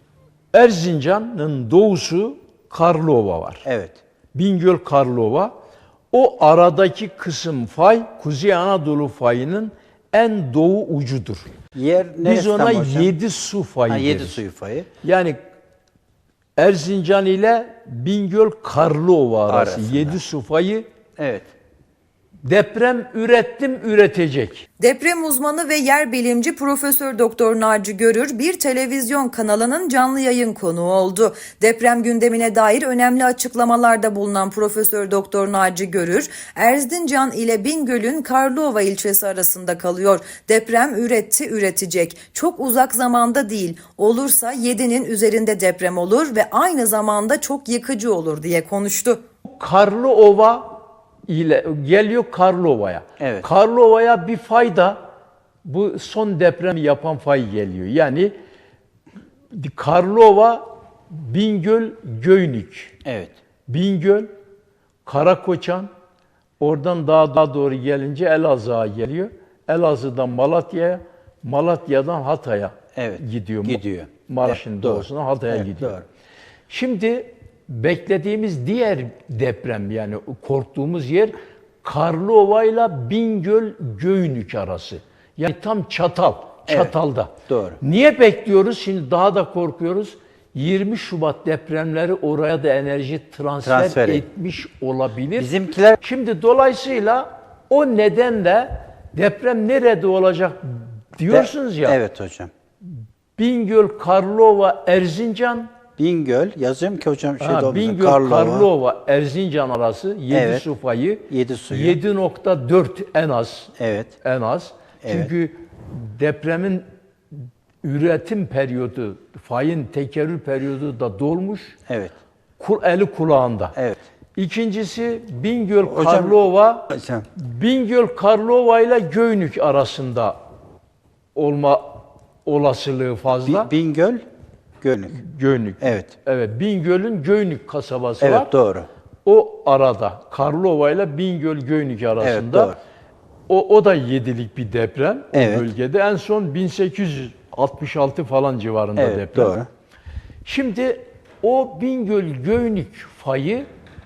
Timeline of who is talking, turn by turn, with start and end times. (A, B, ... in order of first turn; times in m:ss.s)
0:00.5-0:03.6 A
0:03.6-0:04.0 B
0:04.3-0:05.5 A
0:06.1-0:11.5 A
0:11.7-0:13.1 B
0:12.2-0:14.4 A
0:13.8-0:14.9 B
0:15.0-0:15.4 A
0:16.6-0:20.8 A
0:19.5-0:20.2 B
0:21.2-0:21.5 B
0:22.4-0:24.7 A
0:24.8-0:49.2 C
0:49.4-0:55.0 A
0:53.2-0:53.5 B
0:55.6-0:58.3 A
0:59.5-1:03.0 A
1:03.0-1:03.3 B
1:03.7-1:04.3 A
1:05.0-1:05.9 A
1:06.6-1:16.0 A
1:13.0-1:16.0 B
1:16.7-1:35.5 A
1:26.7-1:27.8 B
1:33.6-1:34.2 B
1:35.4-1:36.0 B
1:36.0-1:42.0 A
1:41.3-1:42.5 B
1:43.4-1:45.7 A
1:46.0-1:48.7 B
1:47.4-1:56.8 A
1:50.3-1:50.6 B
1:51.3-1:52.0 B
1:53.8-1:54.1 B
1:55.0-1:55.3 B
1:57.8-2:01.8 A
2:01.9-2:02.1 B
2:02.6-2:03.7 A
2:04.4-2:10.4 A
2:05.8-2:07.2 B
2:11.3-2:13.7 A
2:13.4-2:14.2 B
2:14.8-2:15.2 B
2:15.2-2:18.5 A
2:15.8-2:16.1 B
2:18.2-2:18.9 B
2:19.2-2:22.7 A
2:22.2-2:22.8 B
2:23.5-2:29.6 A
2:25.3-2:25.7 B
2:29.0-2:29.7 B
2:30.4-2:33.7 A